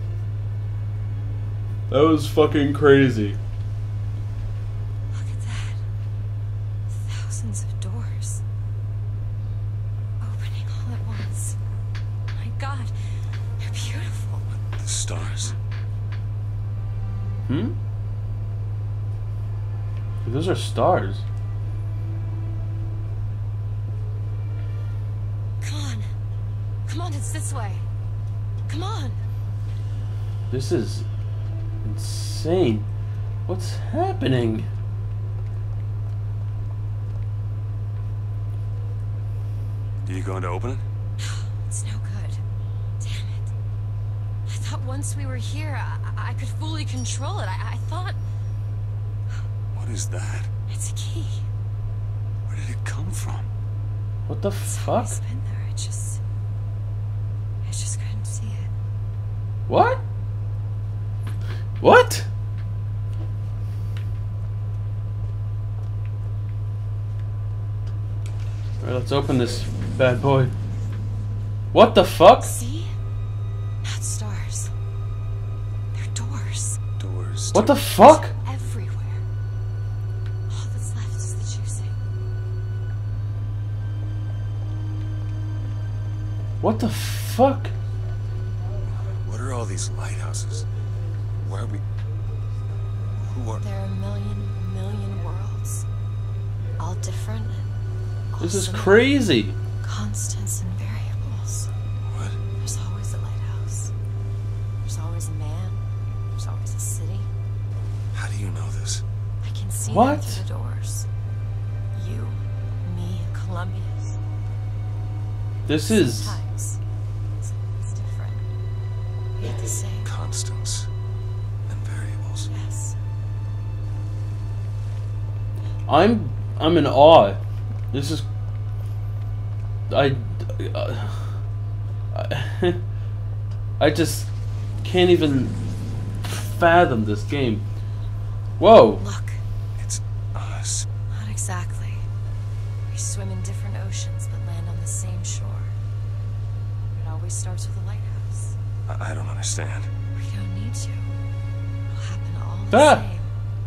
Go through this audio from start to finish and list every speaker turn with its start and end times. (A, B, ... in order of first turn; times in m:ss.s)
0:01.9-0:03.4 A
0:05.1-0:05.8 B
0:06.9-0:08.4 B
0:10.2-0:11.6 B
0:12.3-0:12.9 B
0:13.6-0:14.6 B
0:14.7-0:15.6 C
0:17.5-0:17.8 A
0:20.2-0:21.2 A
0:25.6-0:26.1 B
0:26.8-0:27.8 B
0:28.7-0:29.2 B
0:30.5-0:31.1 A
0:31.8-0:32.9 A
0:33.5-0:34.7 A
0:40.0-0:40.8 C
0:41.2-0:42.4 B
0:43.0-0:43.5 B
0:44.5-0:48.2 B
0:49.7-0:50.5 C
0:50.7-0:51.4 B
0:52.5-0:53.5 C
0:54.3-0:55.2 A
0:54.6-0:56.2 B
0:57.6-0:58.7 B
0:59.7-1:00.0 A
1:01.8-1:02.3 A
1:08.8-1:10.5 A
1:11.7-1:12.6 A
1:12.4-1:12.9 B
1:13.8-1:14.7 B
1:15.9-1:16.8 B
1:17.0-1:17.8 C
1:17.5-1:18.3 A
1:18.0-1:19.2 B
1:20.5-1:22.0 B
1:26.6-1:27.7 A
1:28.9-1:30.7 C
1:31.4-1:31.8 C
1:33.2-1:33.6 C
1:33.6-1:35.8 B
1:36.8-1:37.7 B
1:38.3-1:39.0 B
1:38.4-1:39.6 A
1:39.8-1:41.7 B
1:42.0-1:42.4 C
1:42.5-1:43.9 B
1:44.8-1:45.8 B
1:46.3-1:47.3 B
1:48.1-1:49.0 C
1:49.4-1:51.1 B
1:49.8-1:50.4 A
1:51.9-1:54.2 B
1:55.6-1:56.4 A
1:55.8-1:56.8 B
1:57.4-1:58.4 B
1:59.4-2:00.1 B
2:00.0-2:00.9 C
2:01.7-2:02.5 C
2:02.5-2:03.0 B
2:05.9-2:07.4 A
2:07.9-2:08.2 A
2:09.9-2:11.4 A
2:12.1-2:12.8 A
2:13.8-2:14.3 A
2:14.8-2:15.6 A
2:16.2-2:17.6 A
2:18.6-2:19.0 A
2:19.0-2:19.4 B
2:19.8-2:20.9 C
2:21.1-2:22.0 B
2:22.9-2:25.7 B
2:26.9-2:28.6 B
2:28.9-2:29.9 C
2:30.2-2:31.1 B
2:31.9-2:33.3 B
2:32.7-2:33.0 A